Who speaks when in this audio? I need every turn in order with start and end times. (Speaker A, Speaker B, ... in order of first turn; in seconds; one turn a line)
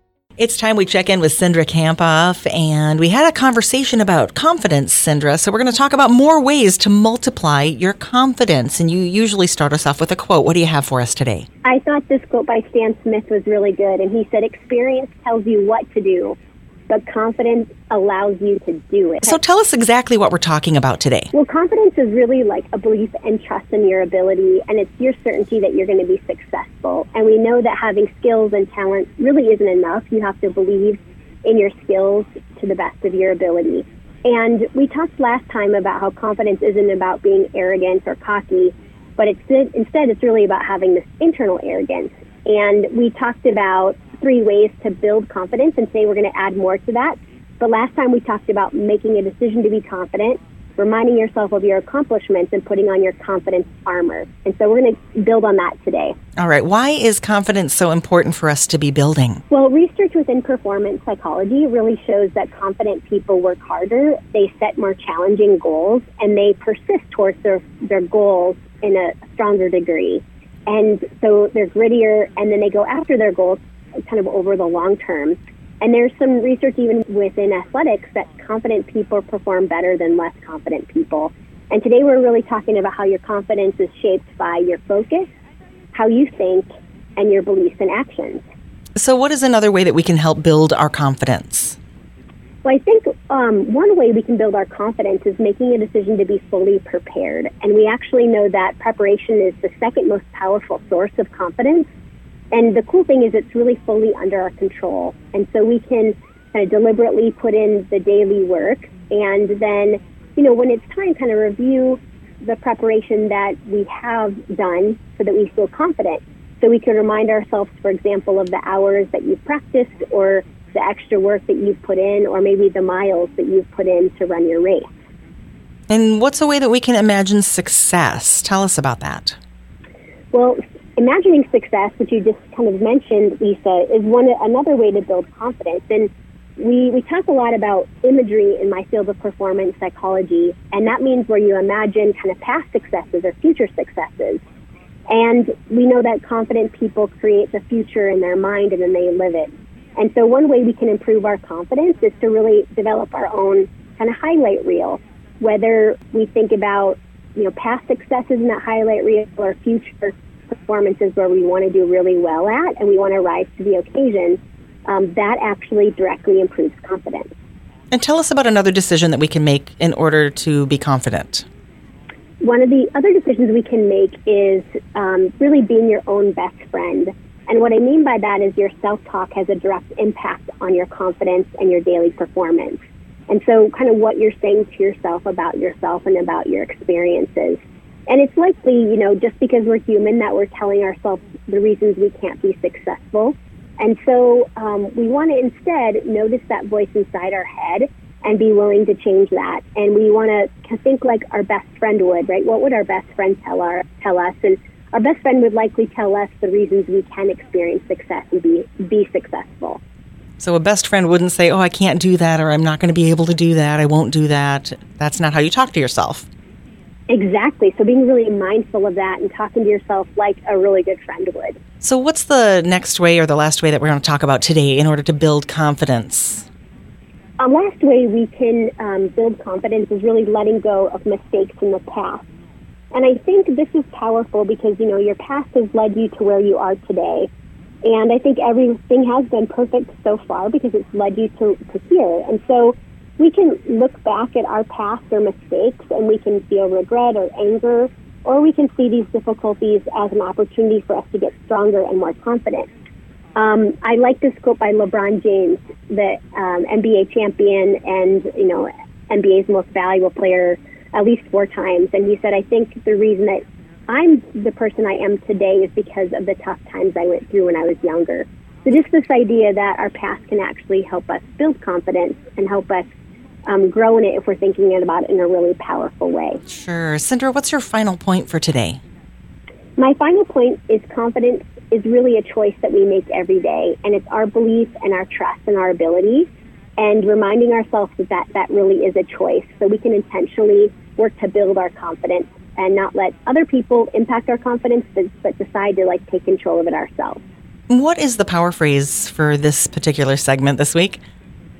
Speaker A: 0.4-11.4
Speaker B: 11.6-16.4
Speaker B: 16.9-19.4
Speaker A: 19.2-21.3
Speaker B: 21.3-56.1
Speaker A: 56.4-59.4
Speaker B: 59.5-85.3
Speaker B: 85.9-88.4
Speaker A: 89.0-91.8
Speaker B: 92.6-101.9
Speaker B: 102.5-124.9
Speaker A: 125.9-129.4
Speaker B: 130.3-144.4
Speaker B: 145.1-167.3
Speaker A: 167.9-171.4
Speaker B: 172.4-209.8
Speaker A: 210.4-216.3
Speaker B: 217.1-221.6
Speaker A: 221.8-226.4
Speaker B: 227.4-232.2
Speaker B: 232.9-237.3
Speaker B: 237.8-252.7
Speaker B: 253.4-272.9
Speaker B: 273.5-276.4
Speaker A: 276.5-278.8
Speaker B: 279.8-297.2
Speaker A: 297.7-301.0